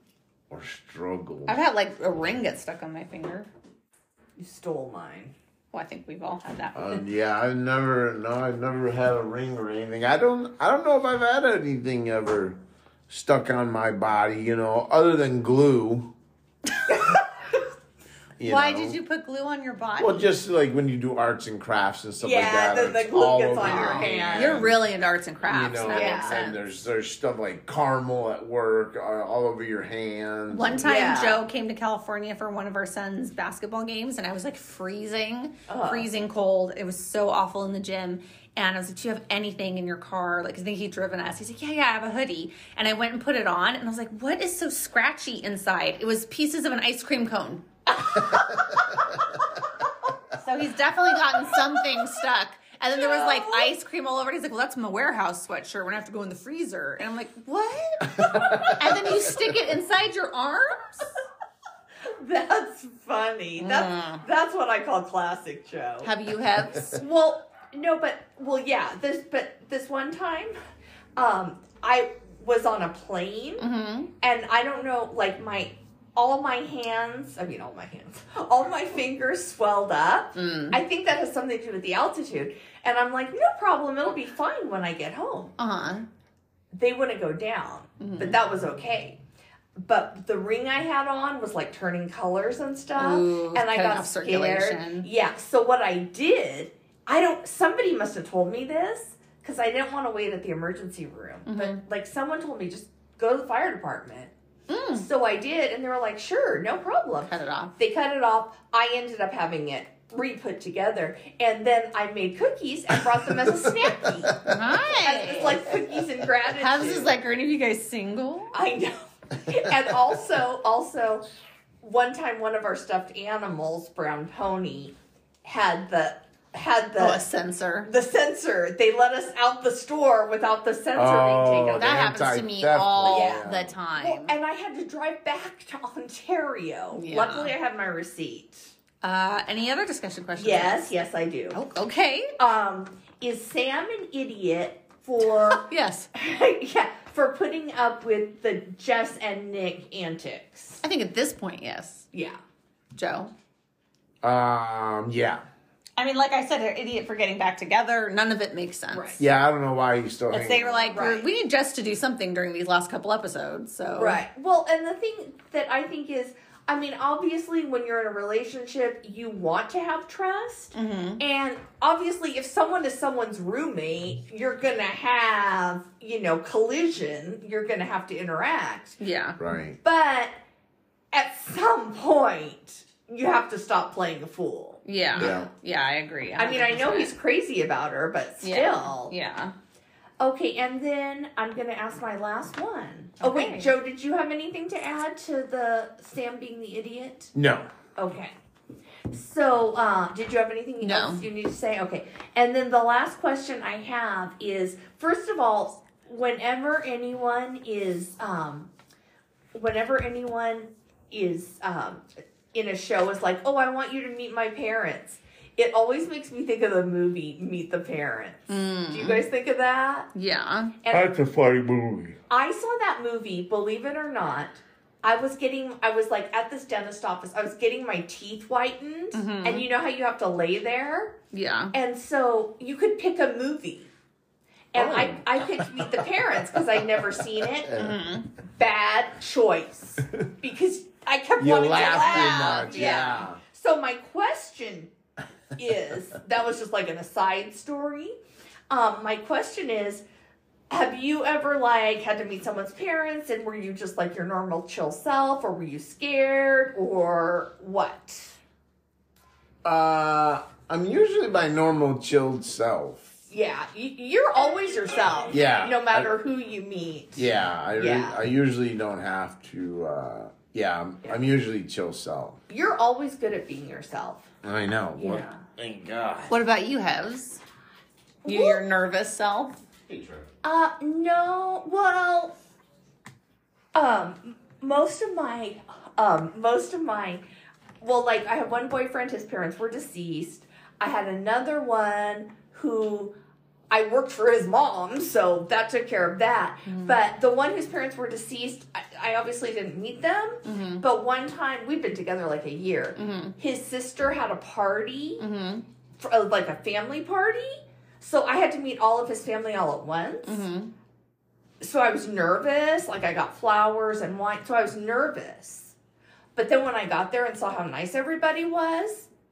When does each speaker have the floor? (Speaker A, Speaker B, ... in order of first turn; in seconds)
Speaker A: 0.5-1.6, 6.7-12.6, 13.1-16.1, 18.4-19.0, 20.0-24.7, 25.4-30.9, 58.2-59.4, 113.4-114.6, 130.9-133.7, 154.2-155.4, 159.2-160.9, 179.4-179.8, 185.2-185.5, 197.3-197.7, 220.9-222.2, 234.7-236.0, 236.9-237.9, 241.4-243.4, 259.6-263.1, 265.3-266.1, 267.1-272.4, 274.4-276.3, 279.9-280.3
Speaker B: 1.4-3.5, 5.7-7.0, 18.4-20.3, 23.6-26.6, 30.5-47.6, 50.3-61.1, 63.6-64.2, 66.0-67.0, 73.6-74.1, 80.3-80.8, 85.6-86.1, 88.0-88.4, 93.0-95.1, 101.5-101.8, 104.7-105.0, 107.3-107.7, 114.4-115.7, 116.5-118.5, 127.0-127.9, 131.8-134.3, 136.9-137.5, 139.0-140.9, 141.5-142.3, 145.6-146.1, 150.8-152.1, 152.9-153.3, 156.0-159.2, 160.3-164.2, 170.7-171.2, 179.0-179.4, 184.8-187.1, 188.4-189.5, 193.2-193.7, 200.8-201.2, 218.5-219.2, 220.1-220.7, 229.1-229.7, 231.3-231.7, 237.7-238.3, 241.8-243.2, 276.3-277.4, 278.2-279.5, 296.7-297.0, 300.4-300.8, 302.9-303.4, 305.2-305.6, 310.2-310.7
Speaker C: 4.4-5.3, 16.9-17.6, 22.2-24.7, 25.9-26.4, 30.8-31.4, 35.7-36.1, 47.9-49.2, 51.4-52.1, 52.9-53.7, 62.0-66.1, 66.9-70.6, 71.2-73.6, 74.2-85.5, 86.7-89.2, 89.8-104.3, 104.9-114.4, 115.0-117.1, 118.5-121.2, 121.8-127.2, 127.8-131.9, 133.0-138.7, 140.3-141.6, 142.4-145.6, 146.1-150.8, 152.1-152.4, 158.9-159.2, 160.9-161.3, 163.9-179.0, 179.8-180.4, 181.1-185.4, 186.4-189.1, 190.2-197.3, 197.9-198.3, 199.1-208.7, 209.5-220.1, 220.8-221.1, 222.3-231.2, 231.7-233.9, 234.7-237.7, 238.6-244.9, 245.6-248.2, 248.7-250.0, 250.7-258.4, 263.3-268.2, 272.5-274.3, 275.0-275.4, 278.2-278.6, 280.4-282.3, 283.7-287.2, 287.8-293.1, 293.7-305.2, 306.0-310.4, 311.6-315.7, 316.4-319.1